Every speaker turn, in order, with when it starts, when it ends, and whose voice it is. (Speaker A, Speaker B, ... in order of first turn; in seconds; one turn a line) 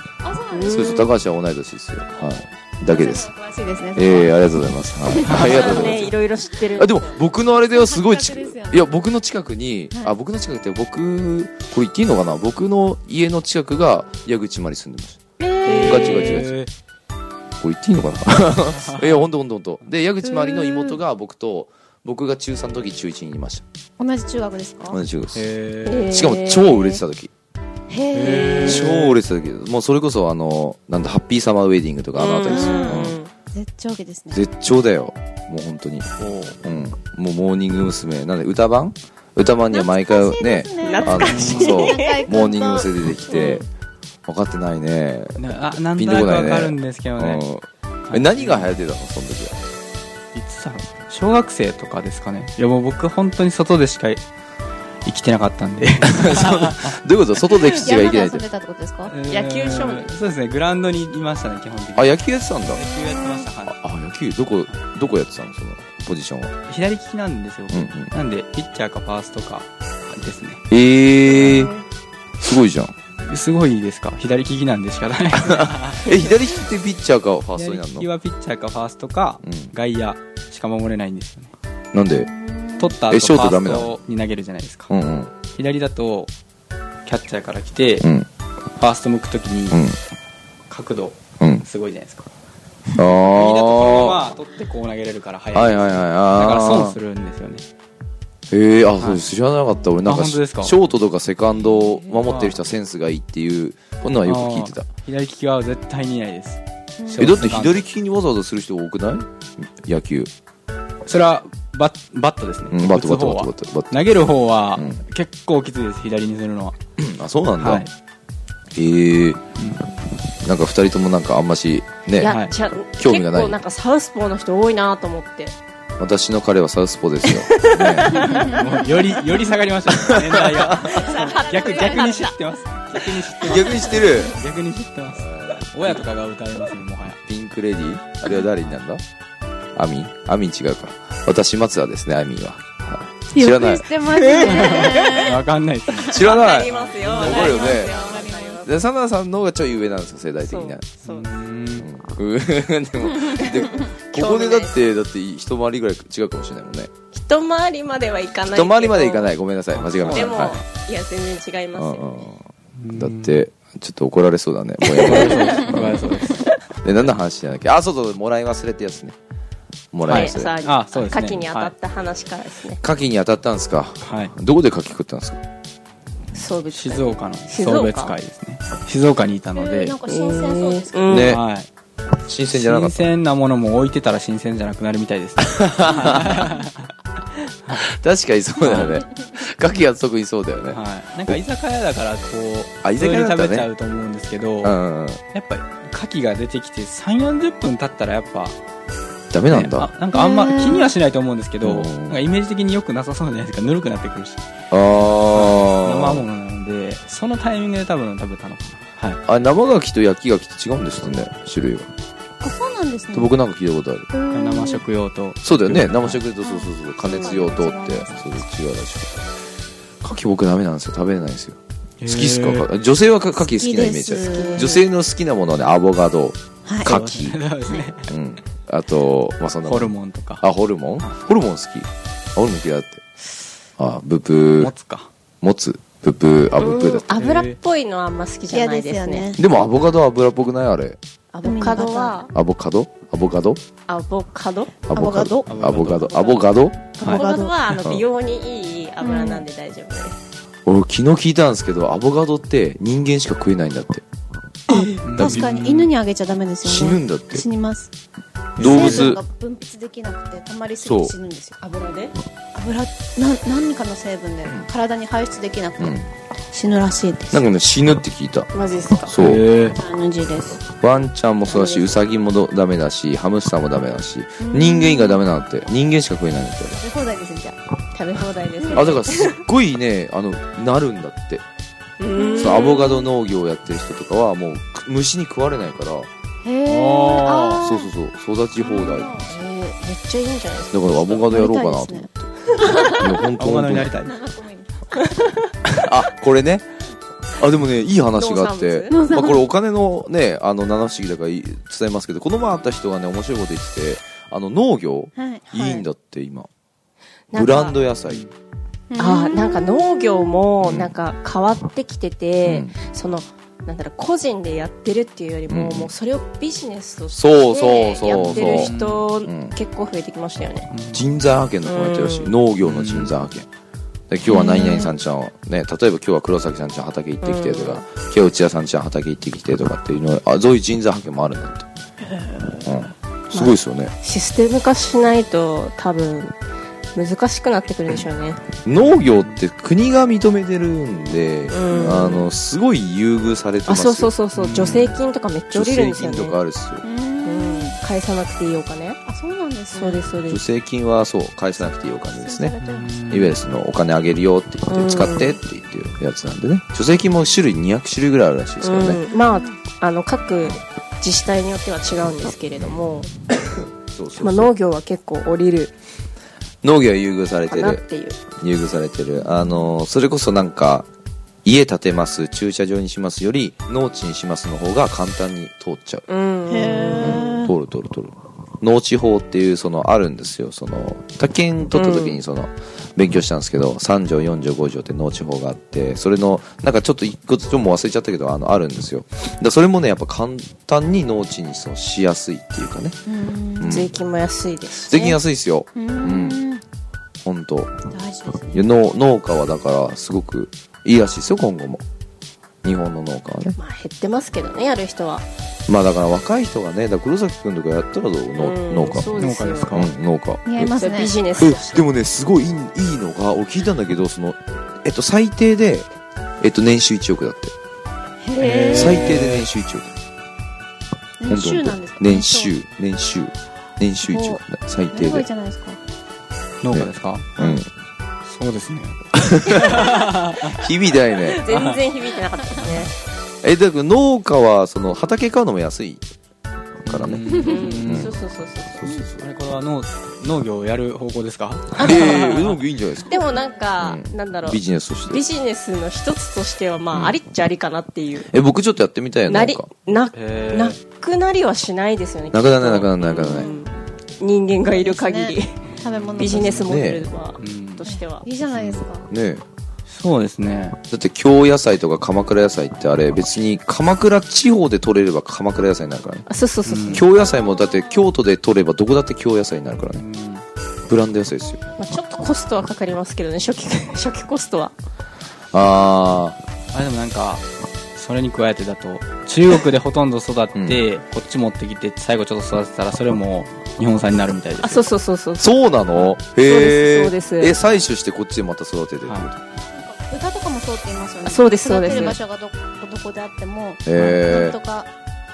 Speaker A: 0.2-1.0
Speaker B: 0.5-1.1
Speaker C: 0.6-3.3
Speaker A: 2.9-4.5
Speaker C: 3.9-6.1
Speaker A: 5.1-5.9
Speaker D: 5.2-6.1
Speaker B: 5.3-7.2
Speaker C: 6.8-16.5
Speaker A: 7.7-8.8
Speaker A: 15.4-16.5
Speaker D: 15.6-16.7
Speaker B: 15.7-16.1
Speaker C: 17.6-23.6
Speaker D: 18.8-19.3
Speaker A: 20.2-21.0
Speaker A: 24.0-24.9
Speaker C: 24.9-25.5
Speaker D: 25.3-26.1
Speaker B: 25.8-27.0
Speaker C: 26.1-27.3
Speaker A: 27.9-28.7
Speaker D: 28.1-29.2
Speaker B: 28.5-28.7
Speaker C: 28.6-33.2
Speaker B: 32.1-33.3
Speaker A: 32.5-34.4
Speaker C: 34.3-43.6
Speaker D: 36.2-36.5
Speaker A: 39.7-42.9
Speaker B: 40.8-42.2
Speaker D: 41.2-41.8
Speaker B: 43.3-43.6
Speaker C: 44.2-49.6
Speaker D: 45.4-47.4
Speaker D: 48.1-48.8
Speaker D: 50.3-54.2
Speaker D: 55.0-57.0
Speaker C: 56.0-58.4
Speaker A: 57.6-59.1
Speaker D: 59.0-63.8
Speaker B: 59.3-60.1
Speaker C: 62.0-62.8
Speaker A: 62.8-63.5
Speaker C: 63.7-66.5
Speaker D: 66.7-70.6
Speaker C: 67.7-68.1
Speaker C: 70.7-71.7
Speaker D: 71.3-71.7
Speaker C: 72.4-72.9
Speaker D: 73.2-76.5
Speaker C: 75.3-78.1
Speaker D: 77.5-81.5
Speaker C: 79.4-79.7
Speaker C: 81.9-82.3
Speaker A: 82.1-83.0
Speaker D: 82.8-84.9
Speaker C: 83.1-83.9
Speaker C: 84.9-85.3
Speaker D: 85.5-86.3
Speaker D: 87.0-88.1
Speaker C: 88.0-88.3
Speaker D: 88.8-89.8
Speaker C: 89.7-90.0
Speaker D: 90.7-92.3
Speaker C: 91.4-91.6
Speaker C: 93.0-94.3
Speaker D: 93.2-97.6
Speaker C: 95.5-97.0
Speaker C: 98.5-104.9
Speaker D: 100.0-100.7
Speaker D: 101.6-102.5
Speaker D: 104.2-107.9
Speaker A: 107.0-107.3
Speaker C: 107.2-110.3
Speaker D: 111.0-116.8
Speaker C: 112.7-114.0
Speaker C: 114.7-115.0
Speaker C: 117.0-117.9
Speaker D: 117.6-117.9
Speaker C: 118.7-119.6
Speaker D: 119.6-119.9
Speaker C: 120.3-122.3
Speaker B: 122.2-125.5
Speaker D: 122.2-122.5
Speaker C: 122.9-123.6
Speaker C: 126.0-128.3
Speaker B: 127.2-128.5
Speaker D: 128.1-137.2
Speaker C: 129.9-130.9
Speaker B: 130.7-132.4
Speaker A: 131.0-132.1
Speaker C: 133.4-134.4
Speaker B: 133.4-134.2
Speaker C: 135.1-136.1
Speaker C: 137.2-139.0
Speaker C: 139.7-143.8
Speaker A: 143.3-145.4
Speaker B: 144.3-145.1
Speaker D: 144.4-147.5
Speaker C: 146.0-147.9
Speaker B: 146.1-148.8
Speaker A: 147.2-148.6
Speaker C: 148.6-150.9
Speaker B: 150.4-151.3
Speaker D: 151.0-151.9
Speaker C: 151.8-156.9
Speaker B: 153.4-154.8
Speaker B: 157.1-159.3
Speaker C: 158.5-160.6
Speaker D: 159.7-160.5
Speaker B: 160.1-162.2
Speaker C: 161.7-166.2
Speaker D: 162.8-163.4
Speaker D: 165.0-166.4
Speaker B: 165.1-165.6
Speaker C: 166.8-169.2
Speaker C: 169.9-170.5
Speaker D: 170.0-171.7
Speaker B: 170.1-172.8
Speaker C: 172.8-175.4
Speaker D: 174.0-174.3
Speaker B: 176.3-178.1
Speaker D: 176.7-180.0
Speaker A: 179.5-181.1
Speaker B: 180.1-181.4
Speaker D: 181.1-181.7
Speaker C: 181.1-181.4
Speaker C: 182.2-183.1
Speaker D: 182.5-186.9
Speaker C: 185.4-186.4
Speaker C: 187.8-191.4
Speaker D: 188.6-189.0
Speaker D: 190.7-194.8
Speaker C: 192.8-193.7
Speaker C: 194.6-195.2
Speaker D: 195.3-198.6
Speaker C: 199.3-199.9
Speaker D: 199.5-204.4
Speaker A: 200.1-200.9
Speaker C: 201.6-202.2
Speaker C: 204.7-206.2
Speaker D: 205.1-209.2
Speaker C: 209.2-211.9
Speaker A: 212.4-213.3
Speaker C: 213.1-214.1
Speaker A: 214.1-214.8
Speaker D: 214.3-216.2
Speaker C: 215.4-219.3
Speaker A: 216.4-218.4
Speaker C: 220.0-227.4
Speaker D: 222.0-222.7
Speaker A: 223.4-224.7
Speaker B: 224.1-224.9
Speaker A: 226.7-226.9
Speaker D: 226.8-228.1
Speaker C: 228.1-233.0
Speaker D: 229.6-230.4
Speaker C: 233.8-234.7
Speaker D: 234.6-235.1
Speaker C: 235.4-237.1
Speaker B: 236.6-239.3
Speaker D: 237.1-237.6
Speaker A: 238.5-239.4
Speaker C: 239.3-241.0
Speaker B: 241.3-242.3
Speaker A: 241.4-242.2
Speaker C: 242.3-243.6
Speaker B: 243.9-244.8
Speaker C: 244.9-246.9
Speaker A: 244.9-245.5
Speaker D: 245.5-246.3
Speaker A: 247.0-247.6
Speaker B: 247.0-250.2
Speaker A: 249.0-249.4
Speaker C: 250.7-254.0
Speaker A: 254.7-257.9
Speaker B: 254.7-255.0
Speaker D: 255.0-255.9
Speaker C: 256.6-257.4
Speaker D: 258.6-259.1
Speaker C: 258.6-259.2
Speaker A: 258.6-261.6
Speaker C: 260.8-261.1
Speaker B: 261.6-262.1
Speaker A: 262.5-266.0
Speaker C: 264.4-264.7
Speaker C: 265.8-266.1
Speaker A: 266.5-267.4
Speaker C: 267.3-268.5
Speaker B: 268.5-269.1
Speaker C: 269.0-269.4
Speaker D: 269.2-269.8
Speaker A: 269.7-270.7
Speaker C: 270.8-276.8
Speaker A: 274.4-275.2
Speaker A: 276.8-277.6
Speaker B: 277.9-279.4
Speaker C: 278.7-281.4
Speaker B: 282.0-282.9
Speaker A: 282.1-282.9
Speaker C: 282.3-286.1
Speaker A: 286.4-287.9
Speaker D: 286.6-287.6
Speaker C: 287.6-289.2
Speaker A: 288.6-289.3
Speaker B: 289.2-291.3
Speaker C: 290.7-292.3
Speaker A: 291.3-292.1
Speaker B: 292.4-293.1
Speaker A: 292.6-293.0
Speaker C: 292.9-293.9
Speaker D: 293.4-294.1
Speaker A: 294.0-294.9
Speaker B: 294.9-295.4
Speaker C: 295.6-296.6
Speaker C: 297.4-306.5
Speaker B: 298.1-299.0
Speaker A: 298.9-299.4
Speaker A: 305.2-305.4
Speaker B: 305.5-305.9
Speaker B: 307.3-307.9
Speaker C: 307.3-308.3
Speaker A: 308.9-310.3
Speaker B: 309.0-320.7
Speaker C: 310.6-310.9
Speaker C: 312.4-312.8
Speaker C: 315.5-315.9
Speaker C: 317.1-318.7
Speaker D: 318.1-319.1
Speaker C: 319.2-319.5
Speaker D: 320.7-321.2
Speaker C: 320.9-323.5
Speaker B: 321.6-322.4
Speaker D: 322.6-323.1
Speaker C: 324.1-331.7
Speaker A: 324.3-324.9
Speaker B: 327.2-327.8
Speaker A: 332.1-332.6
Speaker C: 332.6-333.9
Speaker B: 333.3-336.3
Speaker B: 336.9-338.4
Speaker C: 338.6-344.9
Speaker D: 338.8-339.4
Speaker B: 341.5-342.3
Speaker A: 341.7-342.0
Speaker B: 343.7-346.4
Speaker D: 344.3-344.9
Speaker C: 345.5-346.8
Speaker A: 346.8-347.8
Speaker B: 347.2-349.0
Speaker A: 349.1-350.0
Speaker B: 349.7-350.4
Speaker C: 350.3-352.5
Speaker A: 351.6-353.1
Speaker D: 352.6-353.4
Speaker C: 353.1-359.0
Speaker B: 354.7-355.4
Speaker B: 358.6-365.7
Speaker A: 359.1-359.5
Speaker C: 363.9-364.5
Speaker C: 366.6-367.8
Speaker B: 367.5-368.2
Speaker C: 368.4-370.9
Speaker C: 371.4-376.1
Speaker B: 376.1-377.4
Speaker A: 376.5-377.5
Speaker C: 377.0-393.0
Speaker B: 381.7-382.2
Speaker A: 393.1-393.8
Speaker C: 393.6-393.9
Speaker B: 393.6-395.2
Speaker C: 394.8-396.4
Speaker A: 395.7-396.6
Speaker C: 397.2-397.7
Speaker A: 397.9-398.6
Speaker C: 398.5-401.8
Speaker C: 402.6-403.5
Speaker B: 403.5-405.2
Speaker C: 405.7-409.1
Speaker B: 408.4-409.7
Speaker D: 409.1-409.9
Speaker C: 409.7-410.8
Speaker A: 410.4-411.2
Speaker B: 410.8-411.9
Speaker C: 411.4-415.9
Speaker C: 416.4-417.5
Speaker A: 418.2-419.1
Speaker D: 418.4-419.5
Speaker C: 418.7-419.9
Speaker A: 421.2-422.5
Speaker C: 421.2-425.3
Speaker A: 424.0-424.4
Speaker A: 424.9-425.8
Speaker D: 426.6-427.4
Speaker C: 426.7-427.7
Speaker D: 428.2-430.6
Speaker C: 429.2-429.8
Speaker C: 430.4-431.4
Speaker D: 431.2-431.8
Speaker B: 431.3-432.9
Speaker C: 433.4-436.0
Speaker C: 436.8-438.2
Speaker D: 436.9-438.2
Speaker B: 437.3-438.9
Speaker C: 438.7-439.3
Speaker D: 439.0-442.6
Speaker C: 441.8-443.2
Speaker B: 443.0-448.3
Speaker C: 443.8-445.2
Speaker C: 446.9-447.2
Speaker C: 448.2-449.7
Speaker B: 449.2-455.6
Speaker D: 450.1-450.8
Speaker C: 452.3-453.5
Speaker A: 453.1-453.5
Speaker A: 454.7-456.6
Speaker D: 455.8-456.7
Speaker B: 456.2-458.3
Speaker C: 456.2-457.1
Speaker D: 457.4-457.9
Speaker A: 457.8-459.1
Speaker D: 458.5-458.8
Speaker C: 459.0-459.4
Speaker D: 459.9-460.8
Speaker C: 460.9-466.3
Speaker B: 466.3-467.0
Speaker D: 466.6-467.1
Speaker C: 466.9-470.0
Speaker D: 469.9-470.4
Speaker C: 470.9-471.6
Speaker B: 471.7-474.7
Speaker C: 475.5-476.4
Speaker D: 476.7-484.9
Speaker C: 480.5-480.8
Speaker B: 484.6-485.6
Speaker C: 485.4-489.4
Speaker B: 486.4-487.6
Speaker D: 489.0-489.3
Speaker A: 489.7-494.9
Speaker B: 491.2-492.2
Speaker C: 493.8-494.6
Speaker D: 493.9-494.3